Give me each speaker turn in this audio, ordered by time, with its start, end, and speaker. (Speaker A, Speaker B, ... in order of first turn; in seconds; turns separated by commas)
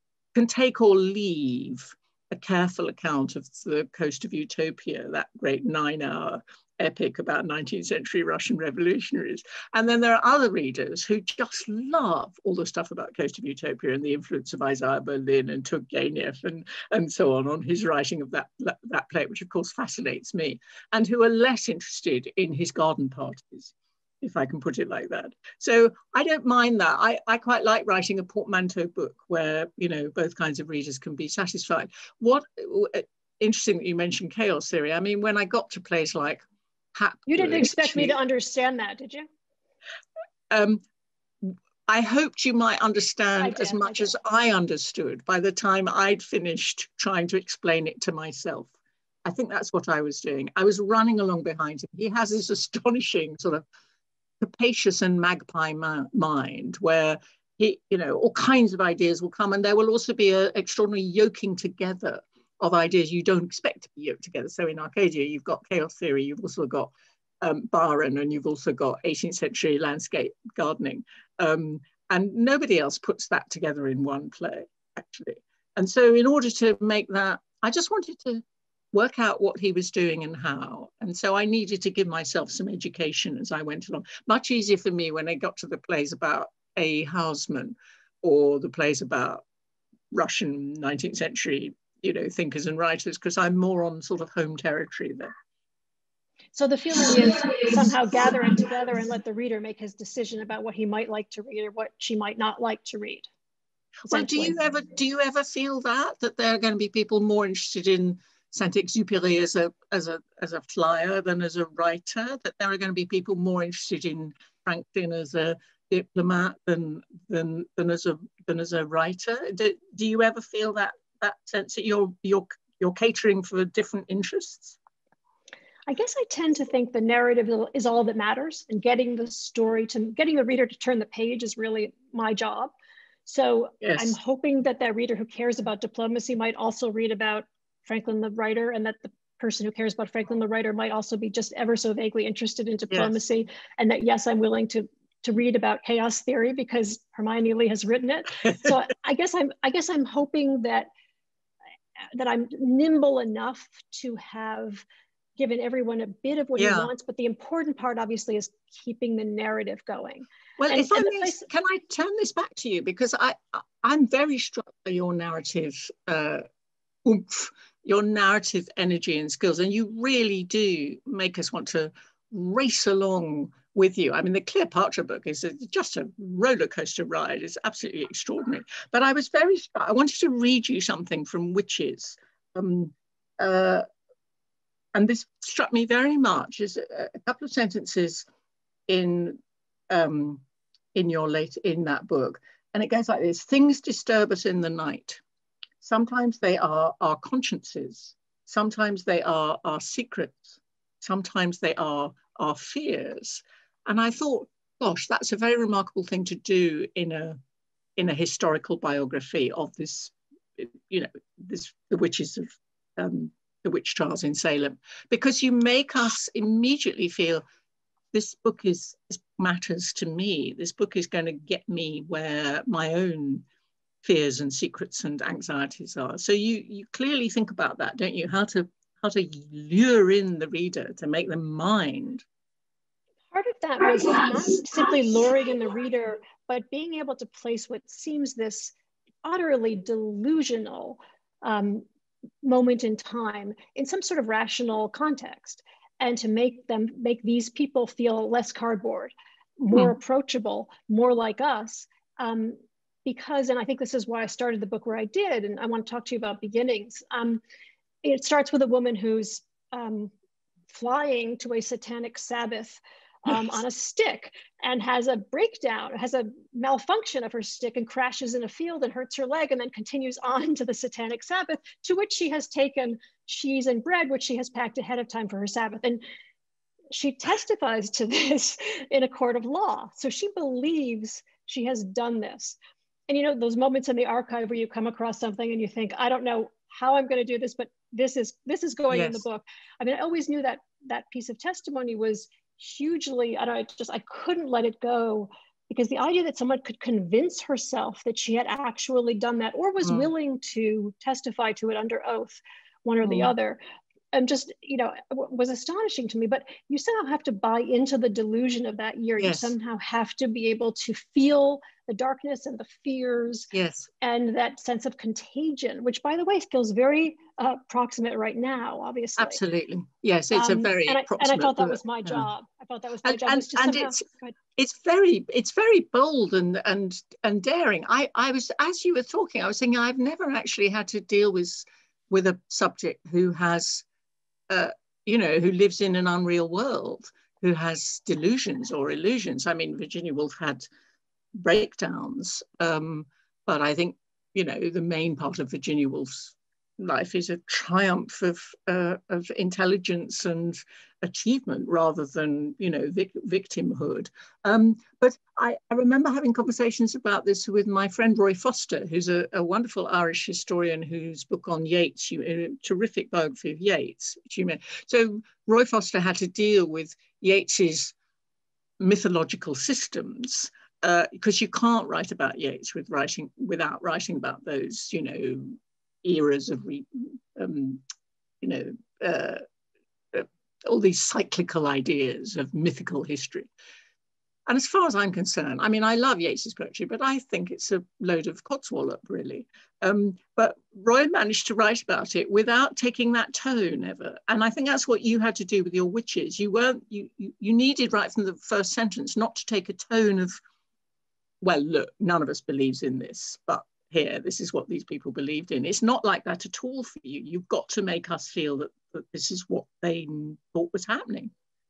Speaker A: 0.3-36.4, Speaker A: 36.9-38.1, Speaker B: 37.3-39.3, Speaker A: 40.5-40.8, Speaker A: 41.4-48.7, Speaker B: 43.4-44.1, Speaker A: 49.3-53.6, Speaker A: 54.4-89.4, Speaker A: 90.1-95.3, Speaker B: 96.5-103.3, Speaker A: 104.1-124.8, Speaker B: 104.1-104.5, Speaker B: 125.9-132.7, Speaker B: 133.3-150.9, Speaker A: 133.8-134.1, Speaker A: 142.9-143.2, Speaker A: 148.4-148.7, Speaker B: 152.1-154.8, Speaker B: 155.4-161.4, Speaker A: 156.6-156.9, Speaker A: 160.6-166.4, Speaker A: 167.1-183.8, Speaker A: 184.9-188.3, Speaker A: 188.9-190.4, Speaker A: 190.9-195.2, Speaker A: 195.8-207.4, Speaker A: 208.0-217.4, Speaker A: 218.1-223.4, Speaker A: 224.0-232.2, Speaker B: 233.3-241.9, Speaker B: 242.4-257.4, Speaker B: 258.0-260.1, Speaker B: 260.7-276.0, Speaker B: 276.9-282.6, Speaker B: 283.1-303.6, Speaker A: 288.9-289.2, Speaker A: 299.8-300.1, Speaker A: 303.1-303.3, Speaker B: 304.1-313.5, Speaker A: 309.2-309.5, Speaker A: 313.5-313.9, Speaker B: 314.0-319.4, Speaker A: 319.2-322.3, Speaker B: 320.3-324.4, Speaker A: 323.0-324.0, Speaker A: 324.6-333.9, Speaker A: 334.5-340.7, Speaker A: 341.4-367.9, Speaker A: 368.8-377.8, Speaker A: 378.4-379.4, Speaker A: 380.1-383.5, Speaker A: 384.5-400.4, Speaker A: 401.4-411.3